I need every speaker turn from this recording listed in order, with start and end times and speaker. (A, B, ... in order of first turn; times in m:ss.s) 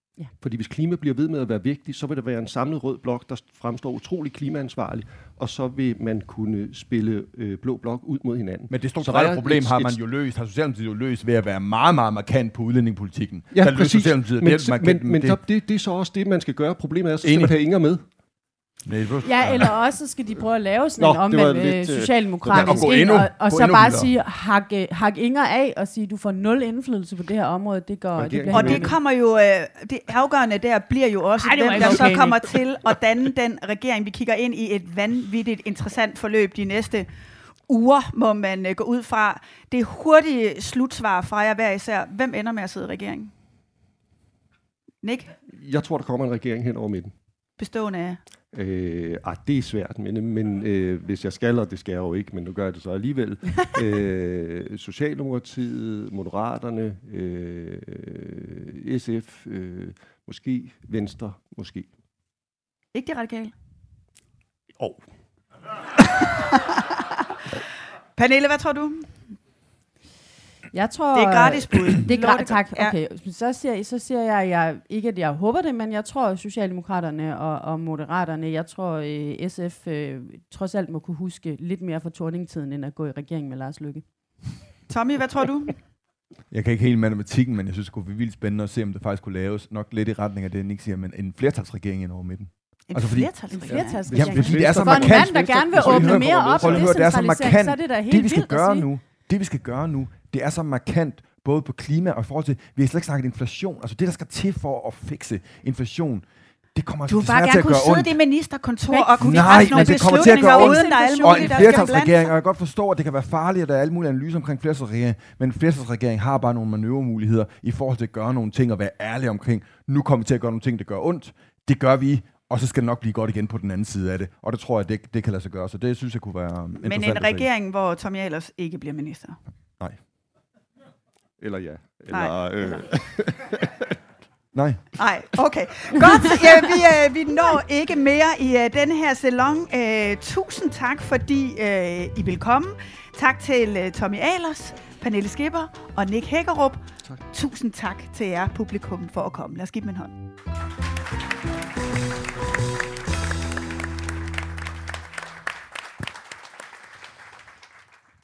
0:00.4-0:10.0 A
0:08.7-0:15.4 B
0:13.5-0:18.0 A
0:17.2-0:17.6 B
0:18.9-0:19.7 B
0:19.2-0:29.0 C
0:21.0-0:23.1 A
0:22.5-0:24.1 B
0:28.2-0:29.0 A
0:28.5-0:37.1 D
0:31.4-0:32.4 C
0:37.7-0:43.3 D
0:45.0-0:45.3 D
0:45.5-0:47.1 A
0:47.6-0:48.2 D
0:48.5-1:01.9 A
1:02.9-1:03.5 D
1:06.3-1:06.8 D
1:08.2-1:09.1 D
1:10.7-1:24.0 C
1:11.1-1:13.0 D
1:24.9-1:25.8 D
1:26.5-1:33.3 B
1:32.9-1:34.4 D
1:33.5-1:38.9 C
1:34.1-1:36.9 A
1:34.1-1:48.2 B
1:47.1-1:52.3 D
1:48.9-1:52.0 C
1:49.2-2:07.5 B
2:06.8-2:09.4 D
2:11.4-2:13.9 A
2:12.1-2:12.9 D
2:14.5-2:14.8 B
2:15.0-2:30.1 D